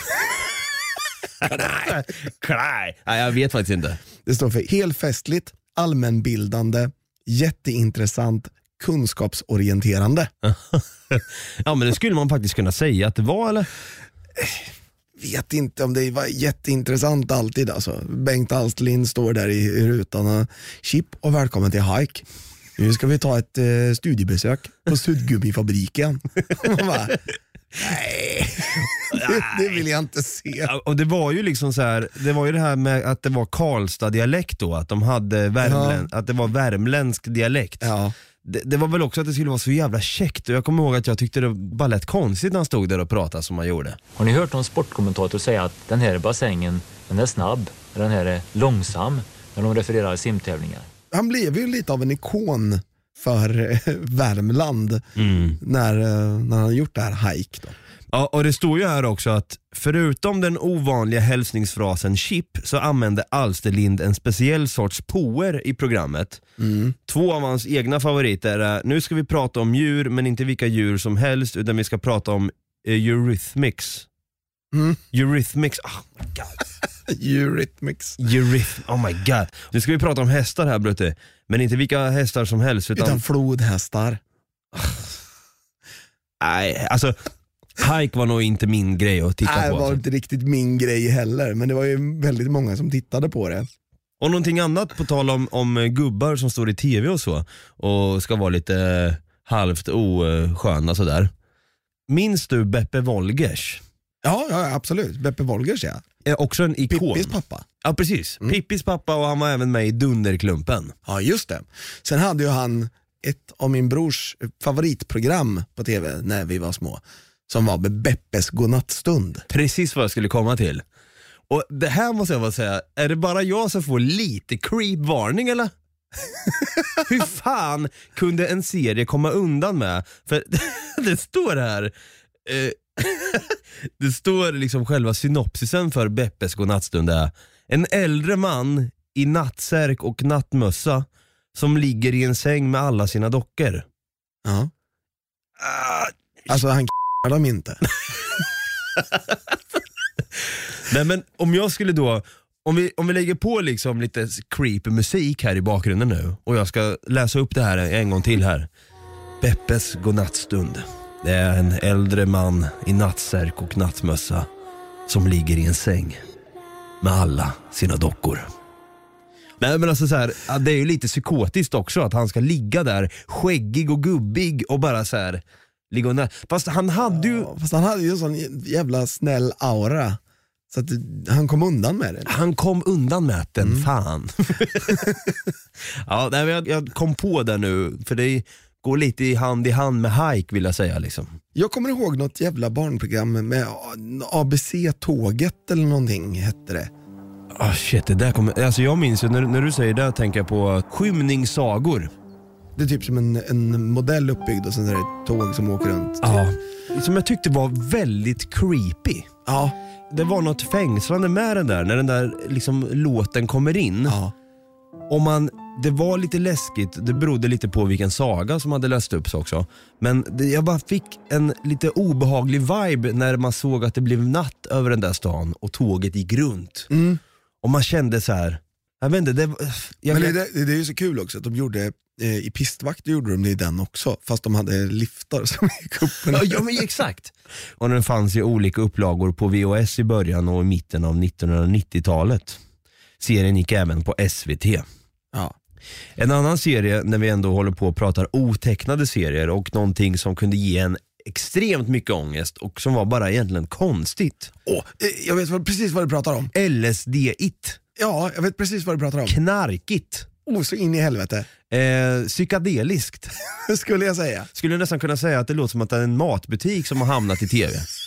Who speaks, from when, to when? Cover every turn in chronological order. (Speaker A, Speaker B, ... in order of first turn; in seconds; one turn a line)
Speaker A: 1.4-4.0
Speaker B: 4.2-10.3
Speaker A: 10.4-13.7
Speaker B: 15.2-22.2
Speaker B: 22.8-27.2
Speaker B: 27.8-30.7
Speaker A: 29.0-29.8
Speaker A: 30.6-37.9
Speaker B: 35.6-36.1
Speaker B: 37.8-38.1
Speaker A: 38.4-44.0
Speaker C: 44.2-50.9
Speaker B: 51.1-55.0
Speaker A: 55.2-55.6
Speaker B: 55.6-57.7
Speaker A: 58.1-66.4
Speaker B: 66.6-67.0
Speaker A: 67.1-74.1
Speaker B: 74.7-75.0
Speaker A: 75.1-76.6
Speaker B: 77.1-78.2
Speaker A: 78.2-83.2
Speaker B: 83.0-84.2
Speaker A: 84.7-85.0
Speaker A: 86.4-87.2
Speaker A: 87.8-90.0
Speaker B: 89.4-93.7
Speaker A: 94.2-101.3
Speaker A: 102.1-103.8
Speaker B: 104.2-106.0
Speaker A: 106.2-110.9
Speaker B: 106.9-107.7
Speaker B: 111.0-119.5
Speaker A: 119.5-120.8
Speaker A: 121.5-125.7
Speaker A: 127.1-131.9
Speaker A: 132.4-143.8
Speaker B: 144.4-144.7
Speaker A: 145.6-146.1
Speaker B: 146.5-147.8
Speaker A: 150.9-158.7
Speaker A: 159.4-164.5
Speaker A: 165.1-166.2
Speaker A: 167.0-168.5
Speaker A: 169.6-177.5
Speaker B: 177.1-180.2
Speaker B: 180.7-182.3
Speaker A: 182.3-185.1
Speaker B: 183.6-183.9
Speaker B: 184.9-185.3
Speaker A: 186.1-191.4
Speaker B: 191.6-196.9
Speaker A: 197.6-202.1
Speaker B: 202.8-206.4
Speaker A: 206.2-209.3
Speaker B: 209.4-209.8
Speaker A: 210.1-214.2
Speaker B: 214.1-214.3
Speaker A: 215.1-226.9
Speaker B: 226.9-227.2
Speaker A: 227.6-230.4
Speaker B: 230.1-236.7
Speaker A: 236.3-242.6
Speaker A: 243.2-244.8
Speaker A: 246.2-254.6
Speaker B: 254.7-256.5
Speaker A: 256.5-257.8
Speaker B: 258.0-259.3
Speaker A: 259.3-260.3
Speaker B: 260.4-261.5
Speaker A: 261.7-263.3
Speaker B: 263.6-264.5
Speaker A: 264.6-267.9